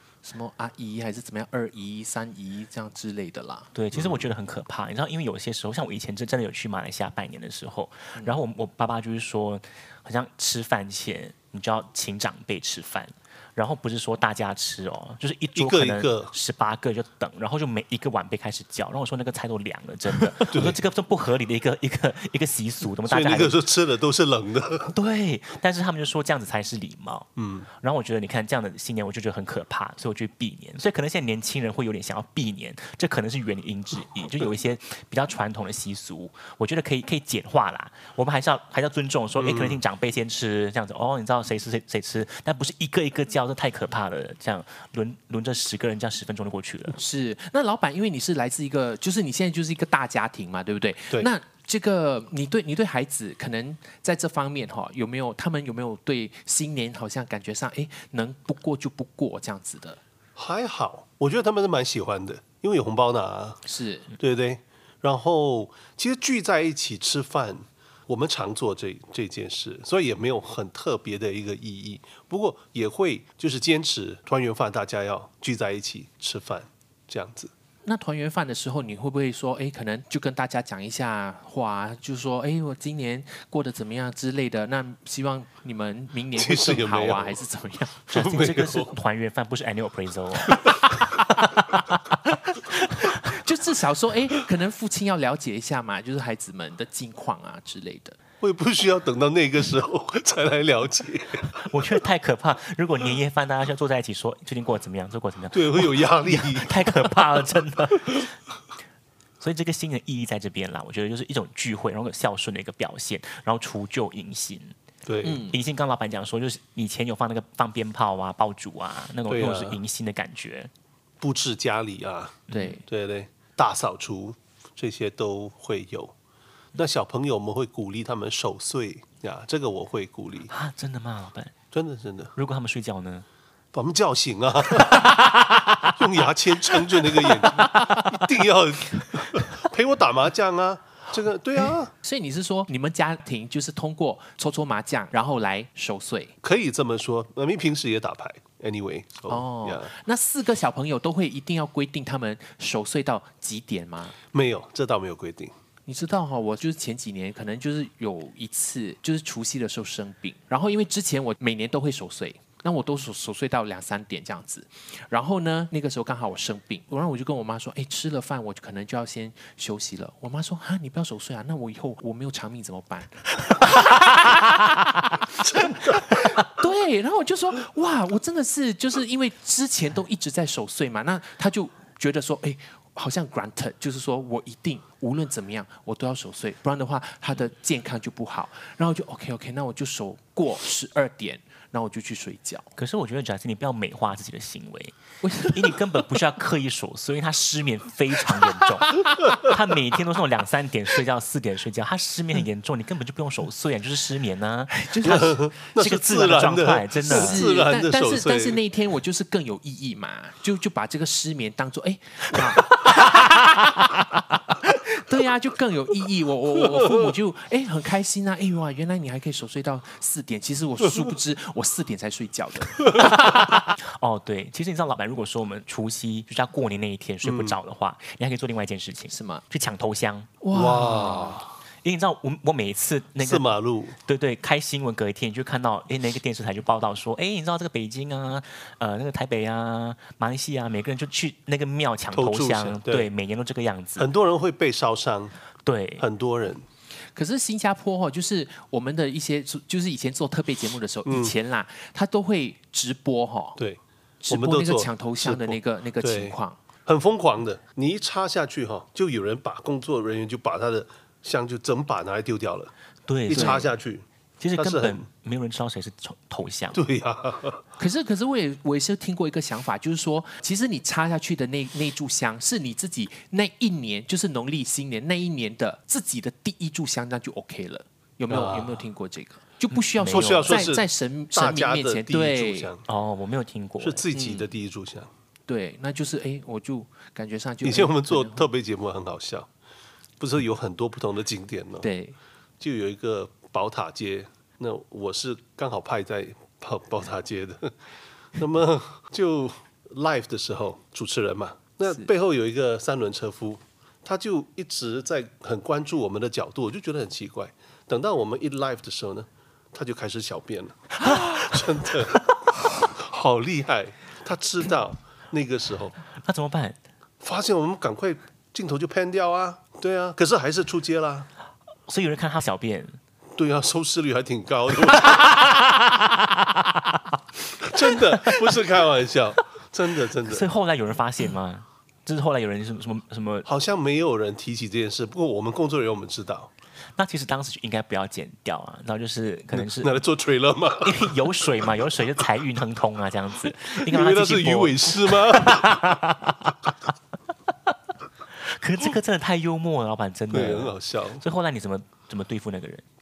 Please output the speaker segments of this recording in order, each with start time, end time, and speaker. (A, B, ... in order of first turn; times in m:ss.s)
0:00.2-0:03.7 A
0:03.7-0:23.6 B
0:03.9-0:04.3 C
0:15.6-0:16.3 C
0:20.4-0:20.8 C
0:23.1-0:24.9 C
0:24.9-0:27.3 B
0:27.4-0:27.7 C
0:27.8-0:47.0 B
0:39.4-0:39.8 C
0:46.9-1:00.0 A
1:00.4-1:03.6 C
1:03.6-1:04.1 A
1:04.2-1:17.5 C
1:17.8-1:28.1 A
1:26.3-1:27.4 C
1:28.1-1:28.9 C
1:28.1-1:32.0 B
1:32.7-1:33.2 B
1:33.1-1:38.2 A
1:38.4-1:41.8 C
1:41.5-1:48.3 B
1:45.5-1:47.0 C
1:49.4-1:54.7 B
1:55.0-1:55.5 C
1:55.2-1:55.5 A
1:55.4-2:00.7 B
1:59.3-1:59.8 C
2:01.2-2:06.1 C
2:02.5-2:02.8 B
2:02.5-2:02.8 A
2:06.7-2:10.5 C
2:10.5-2:11.5 B
2:11.7-2:12.3 C
2:12.4-2:13.2 B
2:13.7-2:15.1 C
2:14.7-2:16.0 B
2:16.0-2:21.9 C
2:22.0-2:26.3 A
2:26.4-2:29.9 C
2:29.3-2:34.2 A
2:34.3-2:35.5 C
2:35.9-3:12.7 A
2:55.6-2:56.0 C
3:12.7-3:27.4 B
3:15.2-3:15.8 A
3:24.7-3:25.5 A
3:25.0-3:28.6 C
3:27.1-3:43.6 A
3:43.8-3:50.3 B
3:47.2-3:47.6 C
3:49.1-3:49.4 A
3:50.4-3:51.4 A
3:50.5-3:51.5 C
3:51.8-3:53.5 B
3:53.2-3:54.0 C
3:54.0-4:04.1 B
4:02.1-4:03.1 C
4:04.0-4:05.3 C
4:05.6-4:06.0 B
4:06.0-4:06.6 C
4:07.1-4:13.6 A
4:11.1-4:11.3 C
4:13.6-4:22.7 C
4:14.2-4:16.6 A
4:23.1-4:23.7 B
4:23.2-4:25.0 C
4:23.3-4:23.6 A
4:24.4-4:26.8 B
4:26.7-4:27.6 C
4:27.8-4:42.7 A
4:38.3-4:38.8 C
4:39.7-4:40.6 B
4:40.0-4:42.8 C
4:42.9-4:44.0 B
4:43.8-4:45.1 C
4:44.1-4:44.5 A
4:45.5-4:48.5 A
4:47.6-4:49.5 C
4:50.2-4:51.9 C
4:51.8-4:52.2 A
4:52.6-4:57.7 C
4:58.4-5:12.3 C
5:12.9-5:16.0 C
5:16.2-5:16.8 B
5:17.2-5:21.3 C
5:21.9-5:23.0 B
5:23.4-5:25.2 C
5:24.9-5:27.0 B
5:27.6-5:30.5 C
5:27.9-5:28.5 B
5:30.2-5:33.5 B
5:33.4-5:36.5 C
5:37.0-5:40.0 B
5:39.5-5:41.2 C
5:40.8-5:46.6 B
5:43.8-5:45.9 C
5:48.4-5:52.8 B
5:50.3-5:51.2 C